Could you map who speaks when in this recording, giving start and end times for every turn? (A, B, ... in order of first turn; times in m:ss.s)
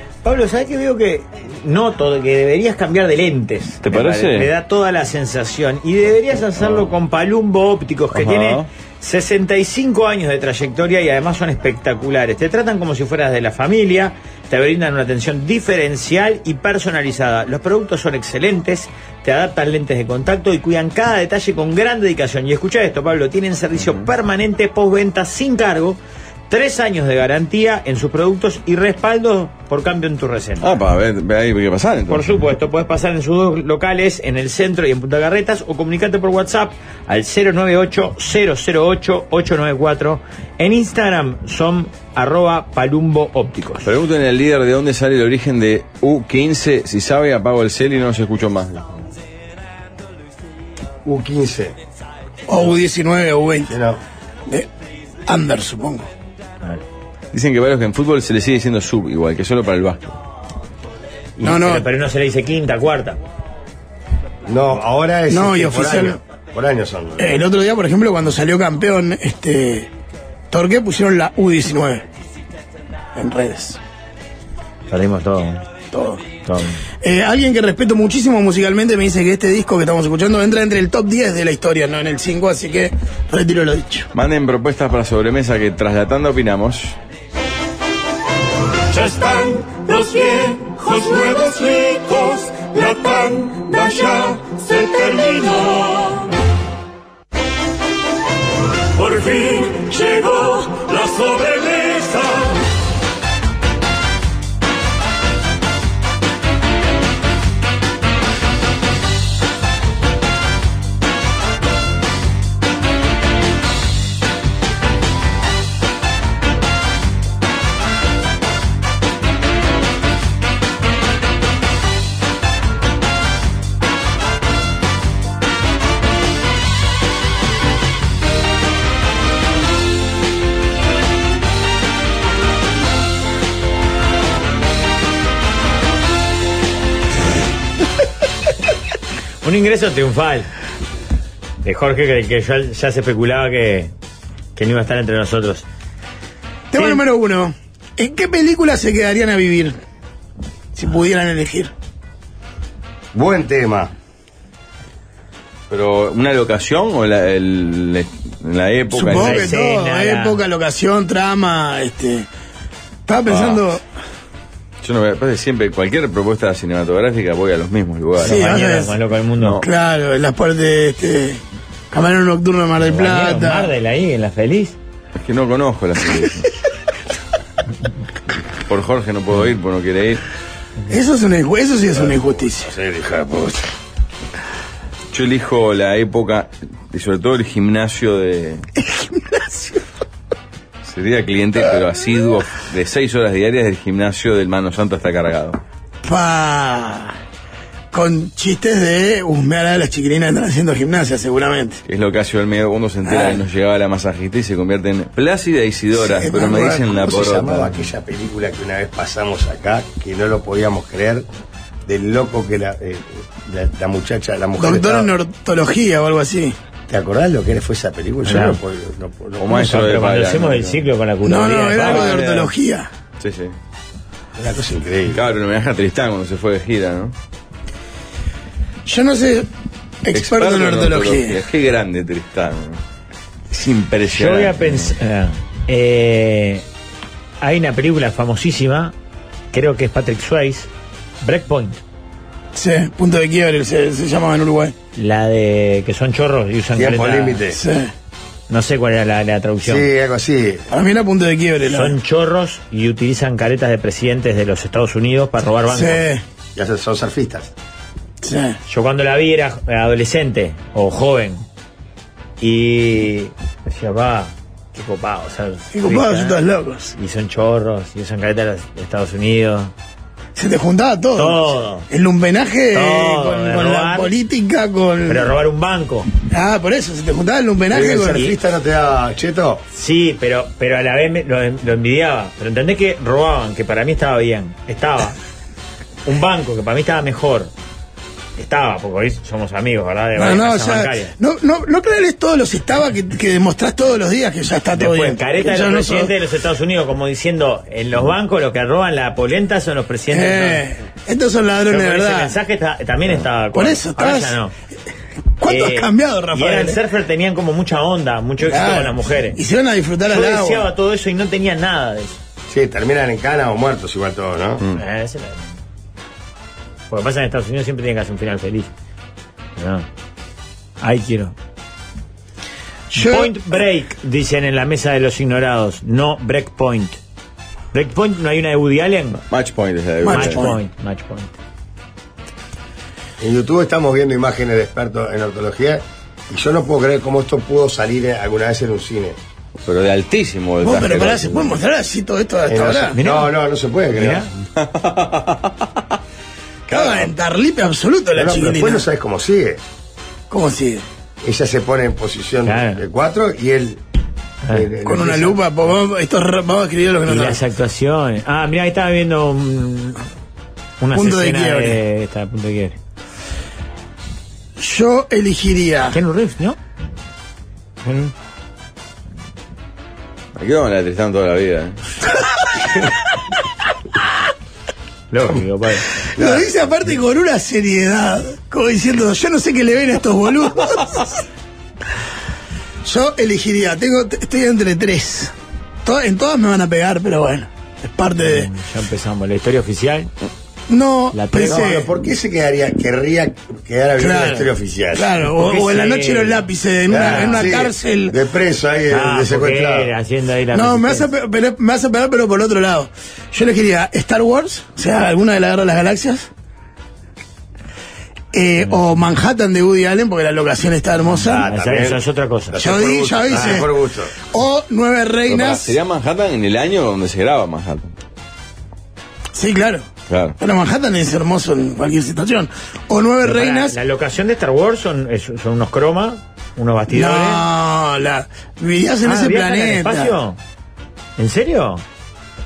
0:00.2-0:26.0 A
0:03.8-0:04.5 B
0:06.6-0:06.9 B
0:08.1-0:08.7 B
0:26.5-0:30.7 A
0:30.6-0:32.3 B
0:32.1-0:43.9 A
0:43.8-0:48.9 B
0:51.0-0:51.8 C
0:52.5-0:53.7 D
0:53.7-0:54.0 C
0:55.3-0:56.1 D
0:57.3-1:00.2 B
1:01.4-1:03.2 A
1:01.4-1:01.9 D
1:04.5-1:07.4 C
1:05.3-1:06.2 D
1:07.2-1:09.9 D
1:10.5-1:12.0 D
1:13.2-1:13.8 D
1:14.9-1:15.6 A
1:15.9-1:16.3 D
1:16.4-1:16.8 A
1:17.0-1:24.1 D
1:24.1-1:27.0 B
1:28.9-1:36.3 E
1:39.0-1:42.6 E
2:19.4-2:20.5 A
2:21.6-2:23.9 A
2:24.6-2:25.6 A
2:26.7-2:29.8 D
2:30.8-2:31.7 D
2:33.1-2:33.9 C
2:35.7-2:39.5 B
2:38.9-2:42.3 D
2:39.1-2:40.4 A
2:43.1-2:43.8 D
2:43.3-2:43.6 B
2:44.8-2:48.6 B
2:48.2-2:49.0 D
2:48.2-2:49.6 A
2:49.4-2:49.7 B
2:49.6-2:53.7 D
2:52.8-2:54.8 A
2:55.2-2:56.5 B
2:58.7-3:00.2 B
3:00.9-3:02.7 D
3:02.0-3:03.6 C
3:05.1-3:08.6 B
3:08.8-3:09.8 D
3:10.8-3:15.6 B
3:16.0-3:17.2 D
3:17.9-3:21.8 D
3:21.9-3:27.8 B
3:23.0-3:23.4 D
3:26.0-3:27.0 D
3:27.1-3:31.3 C
3:31.9-3:35.1 C
3:34.6-3:36.6 D
3:36.9-3:39.5 C
3:38.2-3:38.6 A
3:39.4-3:40.8 B
3:39.5-3:42.2 A
3:41.2-3:42.9 D
3:41.8-3:42.5 B
3:43.2-3:43.5 B
3:44.4-3:45.2 C
3:45.1-3:47.1 B
3:48.9-3:49.5 D
3:50.0-3:51.4 D
3:50.1-3:52.8 B
3:53.5-3:54.9 B
3:54.1-3:56.6 A
3:57.4-3:58.9 A
3:59.5-4:00.7 A
4:01.2-4:01.8 A
4:02.5-4:04.8 D
4:05.0-4:07.4 A
4:06.8-4:07.6 C
4:07.5-4:07.9 D
4:08.5-4:09.9 A
4:09.6-4:10.7 C
4:10.7-4:12.0 D
4:11.7-4:16.0 A
4:15.7-4:16.2 D
4:16.6-4:17.5 C
4:18.2-4:18.6 D
4:18.7-4:21.4 A
4:22.4-4:26.4 A
4:25.7-4:27.0 D
4:27.0-4:29.7 A
4:30.4-4:35.3 D
4:31.2-4:31.9 A
4:32.7-4:34.1 A
4:35.1-4:36.1 A
4:36.2-4:38.2 D
4:37.7-4:39.6 C
4:39.7-4:45.2 A
4:46.1-4:47.5 A
4:48.4-4:51.1 A
4:50.2-4:56.1 D
4:54.8-5:00.6 A
5:00.1-5:02.4 D
5:01.7-5:04.5 A
5:03.5-5:04.4 D
5:05.4-5:06.8 D
5:05.4-5:09.4 A
5:08.4-5:10.7 D
5:10.1-5:12.2 A
5:12.5-5:14.6 C
5:14.8-5:15.6 A
5:16.9-5:18.7 A
5:19.6-5:19.9 A
5:20.8-5:21.4 A
5:22.9-5:23.5 D
5:23.0-5:27.0 A
5:27.7-5:29.2 A
5:29.3-5:30.5 B
5:30.0-5:30.6 D
5:30.1-5:31.4 A
5:33.2-5:39.2 C
5:39.6-5:41.6 B
5:40.6-5:43.0 D
5:42.5-5:44.3 C
5:43.0-5:43.3 A
5:44.0-5:44.3 A
5:44.6-5:45.6 B
5:46.7-5:47.1 B
5:46.7-5:48.9 D
5:48.2-5:49.6 C
5:50.3-5:50.9 D
5:51.2-5:53.8 C
5:52.5-5:52.8 A
5:54.5-5:55.4 C
5:54.8-5:57.4 D
5:57.1-6:00.0 A
6:00.8-6:02.8 A
6:00.9-6:01.8 D
6:04.6-6:06.0 D
6:05.9-6:06.6 A
6:07.8-6:08.1 A
6:10.4-6:11.8 B
6:15.1-6:16.0 A
6:16.0-6:21.2 D
6:16.2-6:16.4 C
6:22.8-6:25.3 D
6:25.8-6:28.5 D
6:28.2-6:30.1 A
6:30.7-6:31.9 D
6:31.1-6:31.7 A
6:31.4-6:35.1 C
6:34.0-6:38.2 D
6:35.4-6:37.6 A
6:36.9-6:39.9 C
6:38.9-6:41.1 A
6:40.5-6:46.3 D
6:48.3-6:51.5 D
6:51.2-6:54.2 C
6:51.4-6:52.6 A
6:52.6-6:53.7 D
6:53.3-6:53.6 A
6:54.2-6:55.8 D
6:55.3-6:57.9 B
6:59.3-6:59.9 D
7:00.1-7:00.4 B
7:00.4-7:03.8 D
7:03.2-7:07.4 A
7:06.9-7:10.2 D
7:09.0-7:10.4 A
7:11.2-7:11.8 A